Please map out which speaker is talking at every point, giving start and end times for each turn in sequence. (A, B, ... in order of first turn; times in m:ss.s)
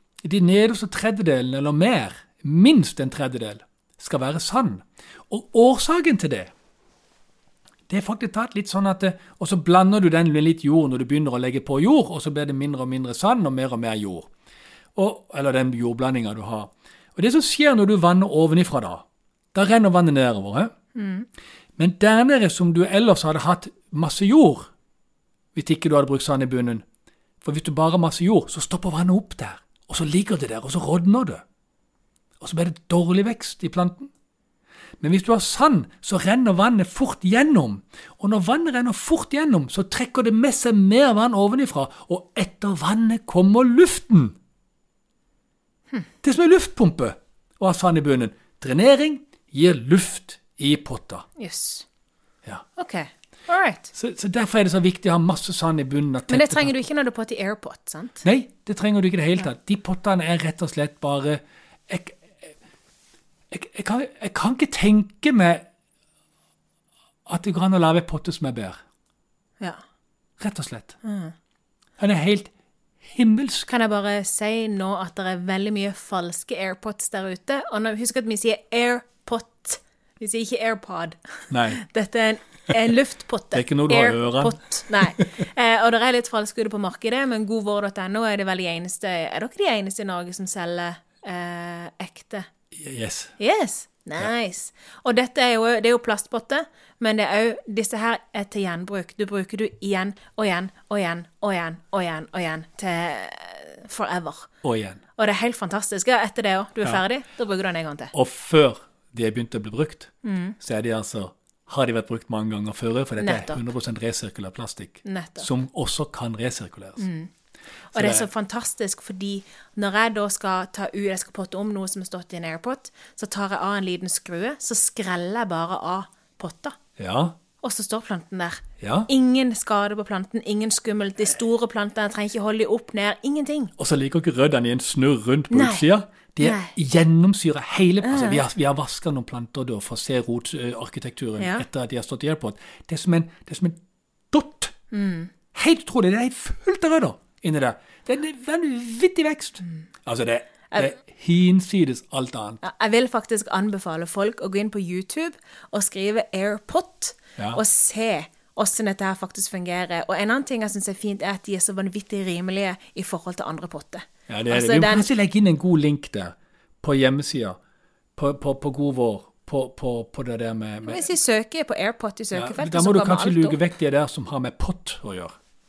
0:00.2-0:06.5 A
0:07.9-0:14.3 A
0:15.0-0:20.7 A
0:21.0-0:21.3 B
0:21.8-0:24.7 A
0:25.6-0:26.8 A
0:27.4-0:31.4 A
0:32.4-0:34.1 A
0:35.0-0:44.4 A
0:46.2-0:51.2 A
0:51.4-0:51.9 B
0:52.8-0:53.9 B
0:53.9-0:56.8 A
0:56.3-0:58.2 B
0:58.2-1:02.5 A
1:03.5-1:05.6 A
1:07.3-1:08.8 A
1:10.4-1:11.0 A
1:11.0-1:11.3 B
1:12.0-1:12.5 A
1:13.0-1:13.7 A
1:13.7-1:32.5 B
1:21.5-1:21.8 A
1:23.5-1:25.4 A
1:32.7-1:33.4 A
1:33.4-1:44.5 B
1:44.6-1:45.0 A
1:45.2-1:48.1 B
1:48.1-1:57.1 A
1:50.2-1:50.6 B
1:53.2-1:53.7 B
1:55.0-1:55.5 B
1:57.0-1:57.3 B
1:57.9-2:06.8 B
1:58.0-1:58.3 A
2:07.0-2:07.4 A
2:07.6-2:13.7 B
2:08.8-2:09.1 A
2:13.8-2:23.8 A
2:15.5-2:15.9 B
2:16.4-2:16.7 B
2:18.0-2:18.4 B
2:21.4-2:21.6 B
2:24.3-2:24.7 A
2:24.9-2:25.3 B
2:25.5-2:32.6 A
2:32.6-2:45.1 B
2:44.3-2:47.6 A
2:48.2-2:51.1 A
2:50.8-2:53.6 B
2:52.3-2:55.3 A